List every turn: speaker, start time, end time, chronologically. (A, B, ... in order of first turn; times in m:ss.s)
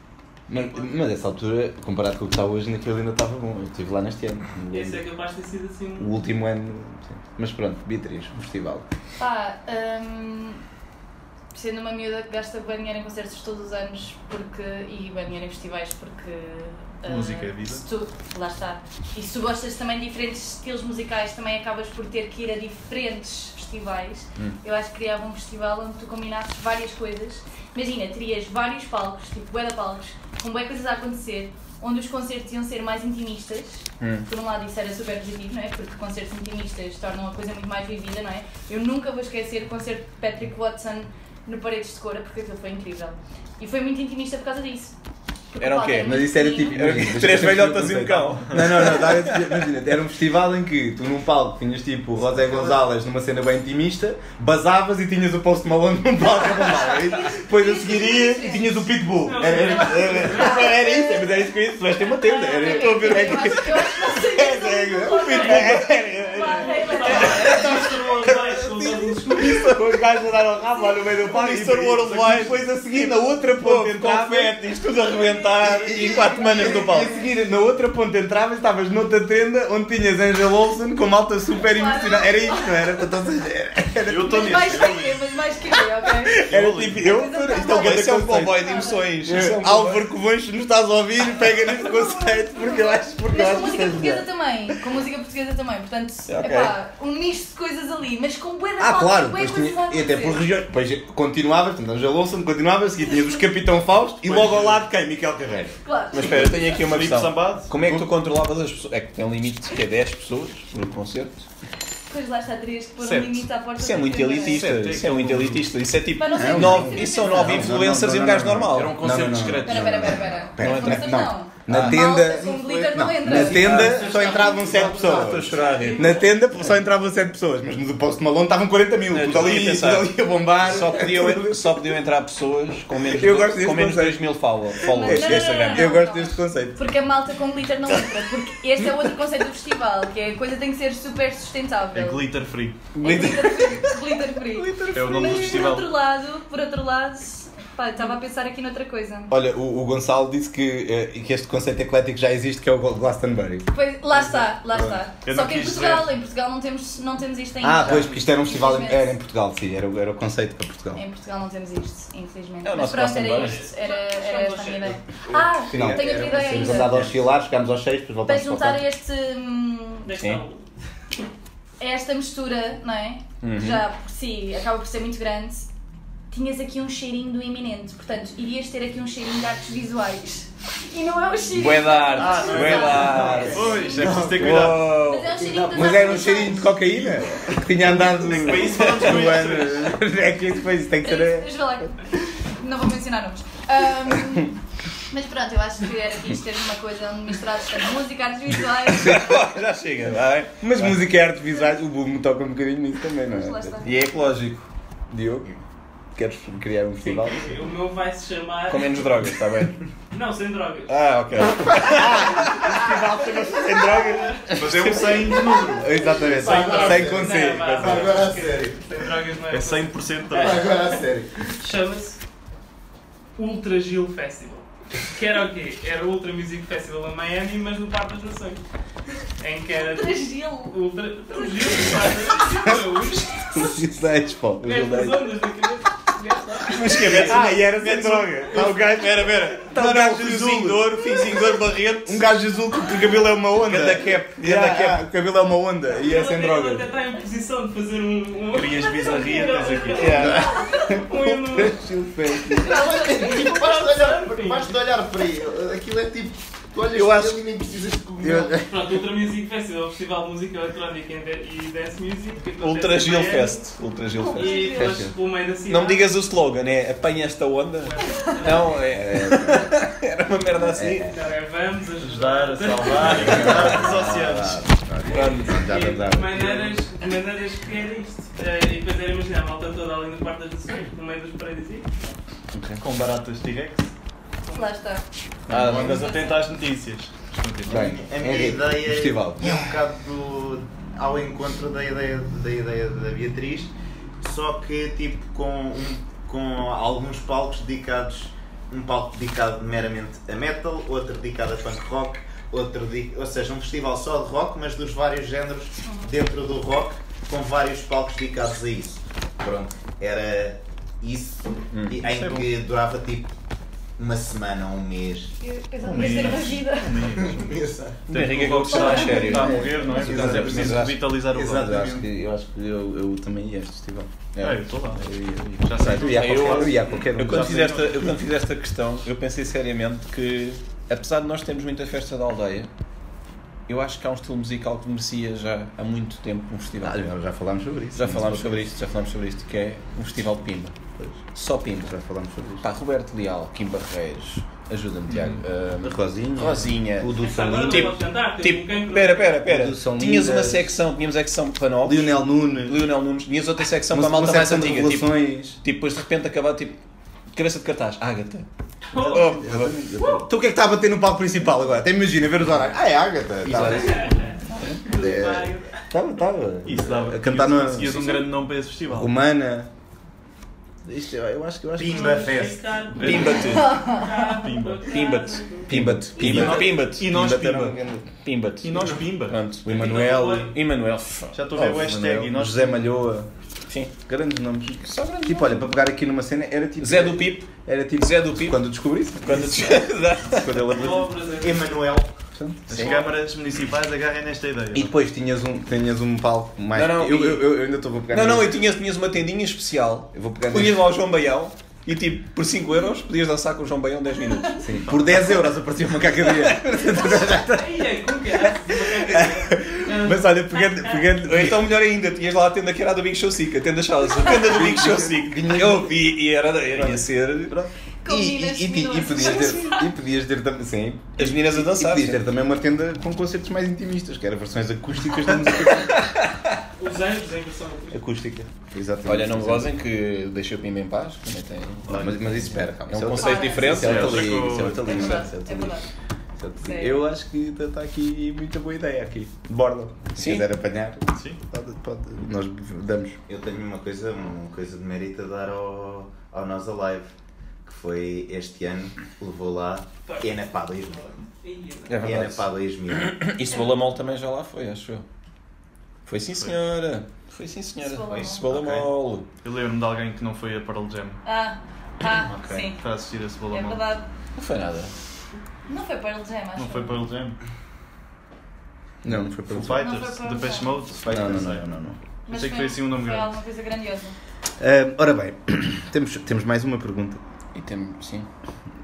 0:00.5-0:05.0 A
0:00.5-0:00.9 B
0:04.7-0:06.1 B
0:06.0-0:08.9 A
0:09.2-0:10.6 C
0:11.5-0:45.0 C
0:17.1-0:17.8 D
0:34.0-0:34.3 E
0:45.5-0:46.8 C
0:45.6-0:49.6 E
0:46.0-1:14.6 A
0:56.6-0:58.9 C
0:59.2-1:00.8 B
1:00.0-1:01.4 C
1:02.1-1:07.9 C
1:02.8-1:03.5 E
1:05.2-1:05.8 B
1:06.4-1:09.6 B
1:07.3-1:07.7 E
1:09.3-1:09.8 E
1:11.2-1:17.2 E
1:15.6-1:24.8 A
1:16.4-1:17.2 C
1:21.5-1:22.9 C
1:24.0-1:25.2 D
1:24.2-1:26.4 C
1:26.5-1:27.1 D
1:26.5-1:30.1 E
1:26.5-1:27.0 A
1:27.0-1:29.0 C
1:27.6-1:28.6 A
1:29.2-1:34.3 A
1:31.4-1:40.5 C
1:36.3-1:36.8 E
1:38.8-1:45.8 A
1:44.2-1:44.8 D
1:45.8-1:46.7 C
1:46.1-1:51.5 E
1:46.4-1:47.7 D
1:47.8-1:48.1 A
1:52.1-1:54.6 C
1:53.0-1:53.4 D
1:53.8-1:59.2 E
1:54.4-1:55.7 D
1:56.2-1:57.8 C
1:56.3-2:11.9 A
1:58.8-1:59.9 D
1:59.6-2:03.9 C
2:00.6-2:02.0 E
2:03.2-2:06.3 E
2:03.8-2:06.4 B
2:09.1-2:16.0 E
2:13.0-2:16.9 A
2:14.8-2:22.3 C
2:21.9-2:22.9 D
2:23.0-2:29.4 C
2:23.0-2:23.9 A
2:23.0-2:23.7 E
2:24.6-2:25.7 E
2:24.9-2:25.9 D
2:29.3-2:35.0 A
2:33.7-2:39.2 C
2:35.2-2:36.1 D
2:37.6-2:41.0 A
2:41.0-2:46.9 C
2:42.6-2:43.7 E
2:43.3-2:45.0 B
2:45.6-2:48.8 A
2:48.2-2:50.1 C
2:50.0-2:50.7 B
2:50.2-2:50.4 E
2:51.8-2:55.7 C
2:53.4-2:53.8 E
2:56.3-3:04.4 C
3:01.5-3:05.5 E
3:02.1-3:05.0 D
3:03.0-3:04.7 A
3:04.9-3:06.8 C
3:05.4-3:05.9 F
3:05.7-3:11.5 A
3:07.0-3:07.3 D
3:08.0-3:10.0 D
3:08.6-3:09.2 E
3:11.0-3:14.6 C
3:15.1-3:19.4 C
3:18.9-3:21.0 E
3:19.0-3:19.4 A
3:20.6-3:23.8 A
3:23.3-3:23.9 C
3:23.8-3:24.7 E
3:25.1-3:25.5 A
3:26.2-3:27.6 A
3:27.0-3:29.1 B
3:28.7-3:29.8 E
3:30.1-3:31.0 B
3:30.9-3:32.7 E
3:31.7-3:34.9 A
3:33.8-3:34.6 B
3:34.5-3:37.2 D
3:35.6-3:38.7 A
3:36.4-3:38.8 F
3:36.4-3:40.8 B
3:39.5-3:40.6 D
3:40.3-3:41.3 A
3:41.6-3:42.2 B
3:43.4-3:48.6 B
3:49.4-3:53.7 B
3:49.8-3:50.8 C
3:51.4-3:51.9 C
3:53.4-3:55.3 A
3:54.6-3:57.3 B
3:56.7-4:02.3 E
3:57.1-4:00.8 A
3:57.2-3:58.0 D
3:58.5-4:01.2 D
4:02.0-4:06.9 A
4:03.5-4:05.0 E
4:05.9-4:11.8 B
4:08.5-4:10.3 D
4:10.0-4:10.4 E
4:10.1-4:12.8 A
4:10.2-4:11.0 C
4:12.5-4:18.6 F
4:12.6-4:13.6 C
4:12.8-4:14.7 B
4:17.0-4:17.4 A
4:18.2-4:18.7 A
4:18.6-4:23.7 B
4:22.6-4:24.8 E
4:24.2-4:25.1 C
4:24.3-4:26.1 B
4:24.8-4:25.1 A
4:25.7-4:31.1 E
4:27.8-4:28.8 B
4:28.9-4:29.8 A
4:30.6-4:31.2 A
4:31.0-4:33.8 B
4:32.0-4:34.7 D
4:33.1-4:36.6 A
4:35.1-4:42.1 B
4:42.8-4:43.9 D
4:44.5-4:45.0 C
4:45.5-4:46.1 E
4:45.5-4:47.9 D
4:45.7-4:46.4 C
4:47.7-4:49.7 A
4:47.7-5:13.3 F
5:11.7-5:12.0 E
5:12.0-5:12.5 D
5:14.0-5:16.4 F
5:15.4-5:17.0 C
5:15.8-5:21.8 D
5:17.1-5:18.0 F
5:18.1-5:21.1 E
5:18.7-5:19.7 C
5:19.3-5:24.1 A
5:21.4-5:22.1 F
5:24.3-5:24.6 E
5:24.4-5:25.0 D
5:25.0-5:27.8 A
5:25.5-5:32.7 E
5:25.7-5:28.1 D
5:33.7-5:37.1 E
5:36.8-5:38.7 A
5:38.0-5:40.8 E
5:41.3-5:41.9 E
5:41.8-5:42.7 A
5:42.6-5:56.8 E
5:45.8-5:47.9 A
5:47.1-5:49.4 B
5:49.4-5:50.7 A
5:51.8-5:52.9 A
5:53.9-5:55.6 A
5:57.3-5:58.5 E
5:58.9-5:59.4 B
5:59.0-5:59.9 E
5:59.1-6:04.2 A
6:00.0-6:00.3 B
6:03.5-6:03.8 E
6:03.7-6:05.8 B
6:04.8-6:08.2 A
6:06.6-6:09.1 D
6:08.9-6:09.7 A
6:10.8-6:12.3 A
6:11.8-6:13.2 F
6:11.9-6:15.7 B
6:13.0-6:13.9 E
6:13.0-6:14.8 D
6:13.6-6:14.0 C
6:14.8-6:17.1 E
6:15.7-6:18.1 A
6:16.2-6:17.8 D
6:18.2-6:22.1 E
6:18.6-6:19.4 D
6:19.7-6:20.6 B
6:21.3-6:22.8 D
6:21.6-6:23.3 A
6:23.7-6:23.9 E
6:24.1-6:31.2 A
6:24.7-6:25.7 E
6:26.8-6:28.7 E
6:29.2-6:30.7 E
6:30.7-6:31.8 B
6:31.4-6:32.1 F
6:32.4-6:32.8 A
6:32.7-6:34.9 D
6:32.7-6:33.0 E
6:32.8-6:33.1 B
6:34.7-6:38.6 A
6:36.7-6:44.7 E
6:40.1-6:40.9 A
6:44.6-6:47.9 A
6:47.4-6:51.1 B
6:49.0-6:51.9 A
6:51.1-6:57.6 E
6:54.2-6:56.2 A
6:57.6-7:06.1 A
6:58.0-6:59.9 C
7:01.2-7:02.2 E
7:06.0-7:06.3 E
7:06.8-7:08.0 B
7:07.9-7:09.7 A
7:09.1-7:14.7 E
7:11.9-7:15.8 A
7:13.2-7:14.0 C
7:13.6-7:15.2 D
7:14.7-7:15.9 C
7:16.4-7:23.2 A
7:16.6-7:17.0 C
7:20.2-7:20.5 E
7:21.1-7:21.4 D
7:23.3-7:27.1 F
7:27.6-7:31.2 F
7:30.1-7:32.0 B
7:31.9-7:35.0 E
7:32.0-7:33.3 F
7:36.1-7:39.3 E
7:37.8-7:38.4 C
7:38.1-7:38.9 F
7:39.4-7:41.2 D
7:41.2-7:42.8 C
7:42.2-7:42.6 F
7:42.7-7:43.8 D
7:43.5-7:44.1 C
7:44.4-7:44.9 E
7:45.7-7:47.0 C
7:46.6-7:47.4 D
7:49.0-7:49.9 A
7:49.5-7:51.7 D
7:49.8-7:50.8 C
7:51.0-7:52.0 A
7:52.3-7:54.2 C
7:52.3-7:53.3 D
7:54.6-7:57.2 A
7:57.5-7:58.3 E